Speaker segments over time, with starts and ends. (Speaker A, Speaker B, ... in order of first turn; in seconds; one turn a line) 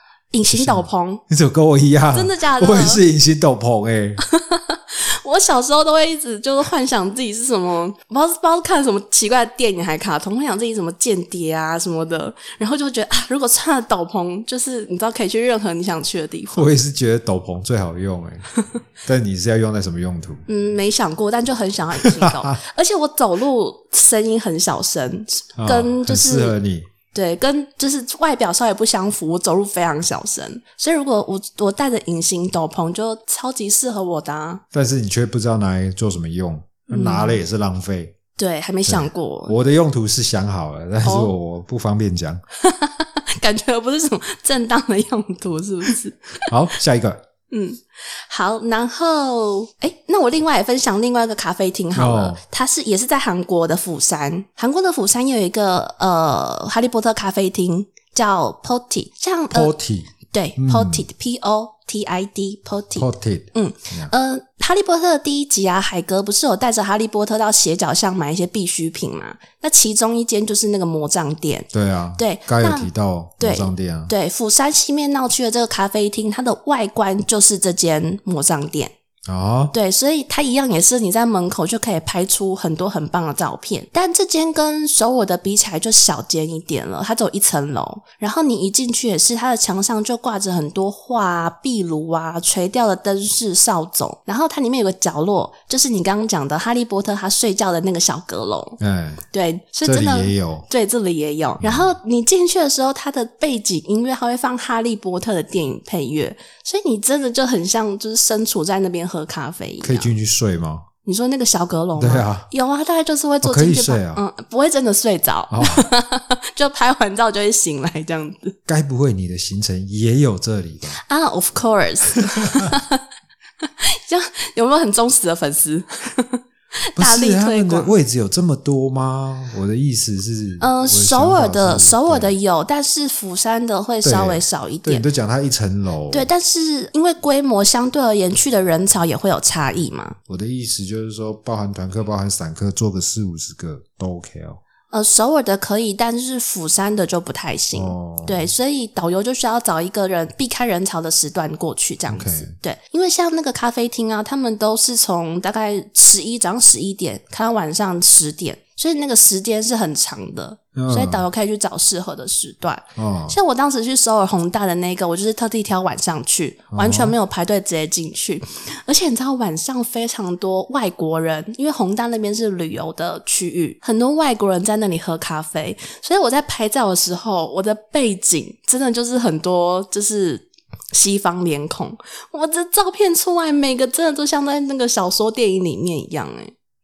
Speaker A: 0.3-1.2
Speaker B: 0.5-4.2
Speaker A: 2.1-3.0
Speaker A: 4.2-16.7
Speaker B: 16.5-18.5
Speaker B: 19.0-20.4
Speaker A: 20.5-26.6
Speaker B: 22.0-22.6
Speaker B: 25.6-26.9
Speaker A: 27.1-34.6
Speaker B: 34.7-38.1
Speaker A: 36.9-37.4
Speaker A: 38.4-39.5
Speaker B: 38.9-42.4
Speaker A: 41.0-41.3
Speaker A: 42.6-46.5
Speaker B: 46.5-47.2
Speaker A: 47.5-59.7
Speaker B: 51.9-52.4
Speaker B: 59.5-61.1
Speaker A: 60.3-72.9
Speaker B: 63.0-64.1
Speaker B: 71.7-74.1
Speaker A: 73.4-78.9
Speaker B: 79.3-79.7
Speaker A: 79.7-98.8
Speaker B: 98.8-99.2
Speaker A: 99.3-110.1
Speaker B: 99.8-100.7
Speaker B: 101.6-102.0
Speaker B: 109.8-110.9
Speaker A: 111.0-118.6
Speaker B: 112.0-112.5
Speaker B: 113.4-114.2
Speaker B: 115.5-115.9
Speaker B: 118.7-121.0
Speaker A: 120.9-123.0
Speaker B: 122.4-122.7
Speaker A: 123.6-127.9
Speaker B: 127.0-132.4
Speaker A: 130.6-135.1
Speaker B: 134.0-136.3
Speaker A: 136.1-140.2
Speaker B: 140.3-144.6
Speaker A: 144.9-186.5
Speaker B: 147.7-148.5
Speaker B: 152.1-152.5
Speaker B: 160.8-161.2
Speaker B: 163.0-163.4
Speaker B: 166.7-167.2